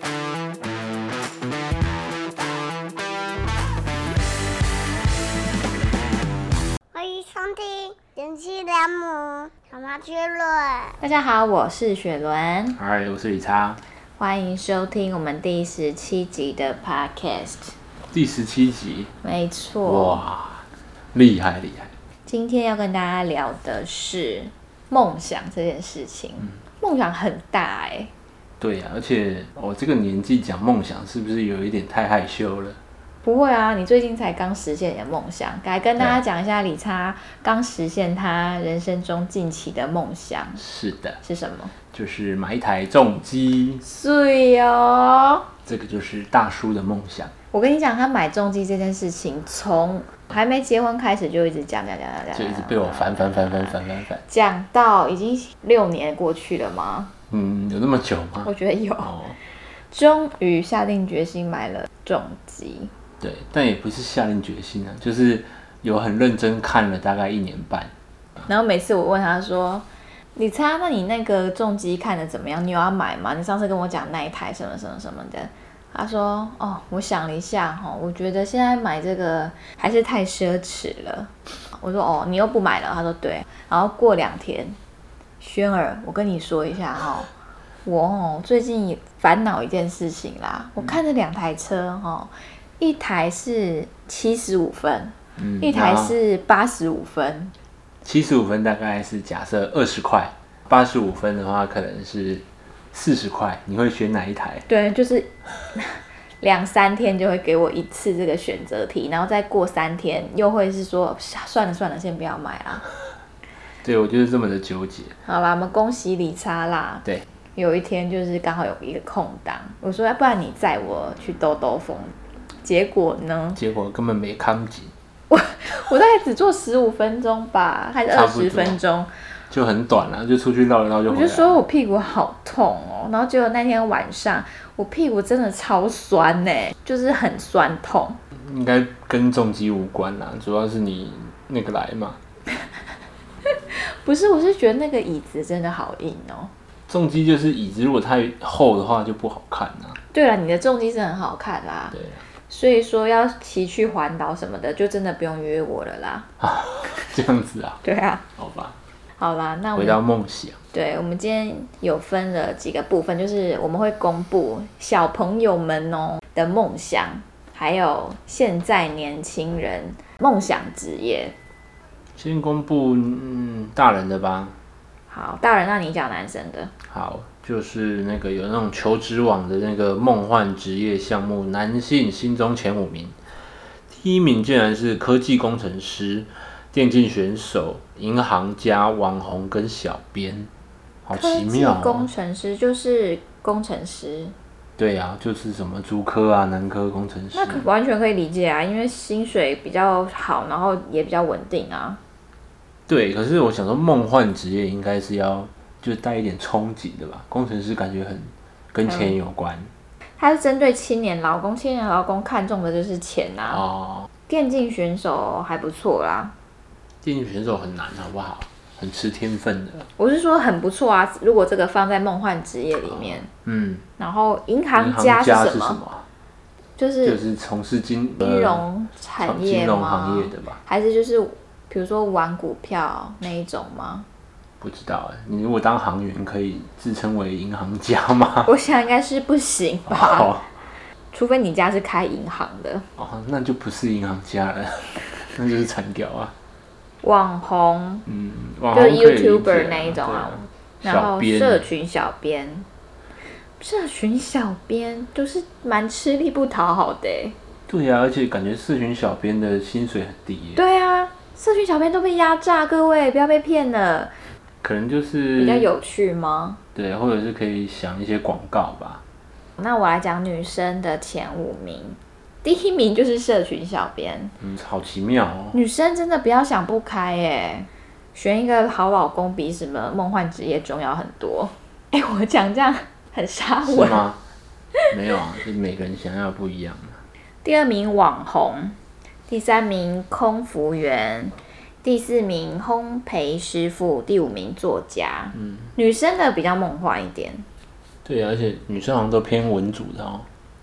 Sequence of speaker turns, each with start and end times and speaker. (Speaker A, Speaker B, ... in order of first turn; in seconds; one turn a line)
Speaker A: 6.9-11.0
Speaker B: 11.0-12.8
Speaker C: 12.8-13.8
Speaker B: 14.2-17.7
Speaker C: 18.1-19.1
Speaker B: 19.2-20.2
Speaker C: 19.9-21.9
Speaker B: 22.3-28.1
Speaker C: 28.6-32.8
Speaker B: 33.2-40.6
Speaker C: 40.6-41.2
Speaker B: 41.2-41.7
Speaker C: 41.9-43.8
Speaker B: 43.8-45.5
Speaker C: 45.7-47.3
Speaker B: 47.5-57.1
Speaker C: 52.3-54.2
Speaker C: 57.3-59.4
Speaker B: 58.5-59.2
Speaker B: 59.9-62.9
Speaker C: 63.2-67.9
Speaker B: 68.5-84.8
Speaker B: 85.4-87.3
Speaker B: 87.8-97.5
Speaker C: 95.4-96.1
Speaker C: 98.0-104.7
Speaker B: 104.7-112.8
Speaker C: 113.8-115.2
Speaker B: 115.3-117.0
Speaker B: 117.6-123.6
Speaker C: 123.6-124.9
Speaker B: 125.3-129.1
Speaker C: 128.1-128.8
Speaker C: 129.5-131.6
Speaker B: 131.1-138.2
Speaker C: 138.3-142.2
Speaker B: 143.5-146.5
Speaker C: 146.9-150.0
Speaker B: 150.1-152.0
Speaker C: 151.9-152.2
Speaker B: 152.5-156.3
Speaker C: 156.4-157.8
Speaker B: 157.8-158.3
Speaker C: 158.4-158.8
Speaker B: 159.2-160.0
Speaker C: 159.8-160.6
Speaker B: 160.7-171.3
Speaker C: 172.2-174.6
Speaker B: 175.1-176.7
Speaker C: 176.9-183.2
Speaker C: 183.9-190.5
Speaker C: 191.1-192.1
Speaker B: 191.1-194.3
Speaker C: 194.8-197.7
Speaker B: 197.3-202.0
Speaker C: 202.9-209.7
Speaker B: 208.9-209.1
Speaker B: 210.2-213.7
Speaker C: 213.5-214.1
Speaker B: 214.3-216.3
Speaker C: 217.0-219.9
Speaker B: 220.0-223.3
Speaker C: 223.4-223.8
Speaker B: 224.0-225.8
Speaker C: 224.8-226.1
Speaker B: 226.8-227.2
Speaker C: 227.0-228.6
Speaker B: 228.2-234.1
Speaker C: 229.2-230.6
Speaker C: 234.6-238.5
Speaker B: 238.5-240.3
Speaker C: 239.9-240.5
Speaker B: 241.1-242.9
Speaker C: 243.0-246.3
Speaker B: 247.0-248.1
Speaker C: 248.1-251.6
Speaker B: 248.7-252.7
Speaker B: 253.6-257.4
Speaker C: 257.7-260.6
Speaker B: 260.6-264.1
Speaker C: 264.6-265.7
Speaker B: 265.4-266.6
Speaker C: 266.8-269.0
Speaker B: 269.6-274.4
Speaker C: 274.4-275.6
Speaker B: 275.5-284.0
Speaker C: 283.6-284.2
Speaker C: 284.9-287.0
Speaker B: 287.4-288.8
Speaker B: 289.3-297.4
Speaker C: 298.1-300.3